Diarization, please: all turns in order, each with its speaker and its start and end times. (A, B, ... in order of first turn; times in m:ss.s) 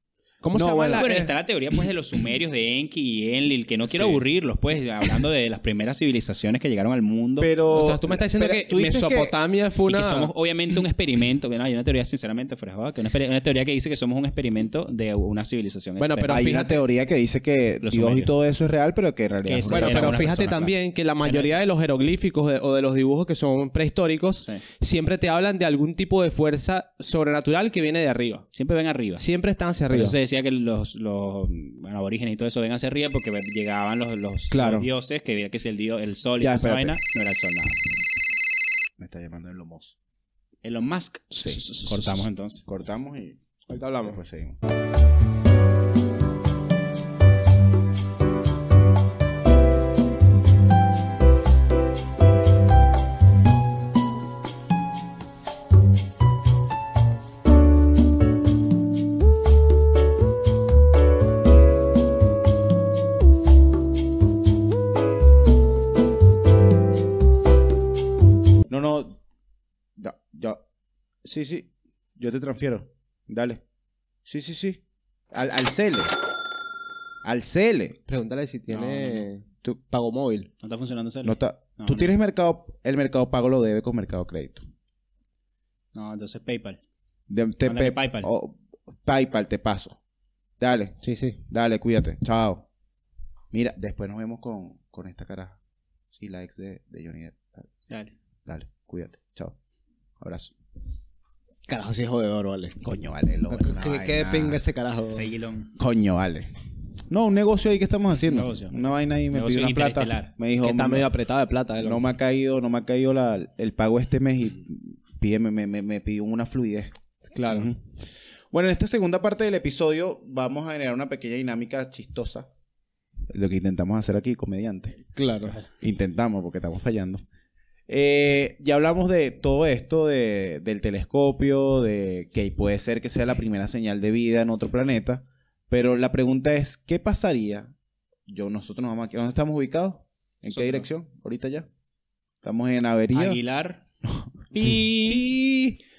0:00.4-0:01.3 A
0:00.5-0:01.1 B
0:00.9-0:07.5 C
0:03.9-0:04.2 B
0:07.4-0:09.3 B
0:07.7-0:10.3 A
0:09.9-0:16.4 C
0:16.0-0:16.7 A
0:16.3-0:20.3 B
0:17.8-0:18.3 C
0:19.4-0:21.6 C
0:19.7-0:28.5 A
0:28.5-0:29.2 C
0:29.2-0:30.2 A
0:29.9-0:37.8 C
0:34.5-0:34.9 A
0:36.4-0:36.9 B
0:39.0-0:39.9 B
0:40.6-0:42.6 C
0:41.3-0:44.6 B
0:43.7-0:44.2 A
1:08.7-1:09.2 B
1:10.0-1:10.6 B
1:11.2-1:13.6 B
1:14.2-1:14.8 B
1:15.3-1:16.1 B
1:17.2-1:18.0 B
1:18.1-1:20.5 A
1:18.7-1:19.3 C
1:20.6-1:22.1 C
1:21.2-1:24.6 B
1:25.9-1:26.8 C
1:27.3-1:30.0 B
1:27.6-1:28.3 C
1:30.6-1:31.0 B
1:31.0-1:31.4 A
1:31.5-1:32.6 B
1:33.5-1:35.6 B
1:36.1-1:37.7 B
1:38.5-1:39.6 B
1:40.2-1:40.5 B
1:41.7-1:42.8 A
1:42.8-1:44.6 B
1:43.5-1:45.3 A
1:45.1-1:45.7 C
1:45.8-1:46.5 B
1:47.1-1:51.1 B
1:48.2-1:48.8 C
1:49.3-1:50.3 C
1:50.6-1:52.0 A
1:51.8-1:56.9 B
1:57.3-1:57.7 A
1:57.5-1:57.8 B
1:58.5-2:02.5 B
2:03.3-2:05.0 B
2:05.1-2:05.6 A
2:05.8-2:07.2 B
2:07.9-2:17.7 B
2:18.3-2:21.7 B
2:20.5-2:20.8 C
2:22.4-2:23.4 B
2:23.1-2:23.8 C
2:24.0-2:25.8 B
2:24.5-2:25.2 C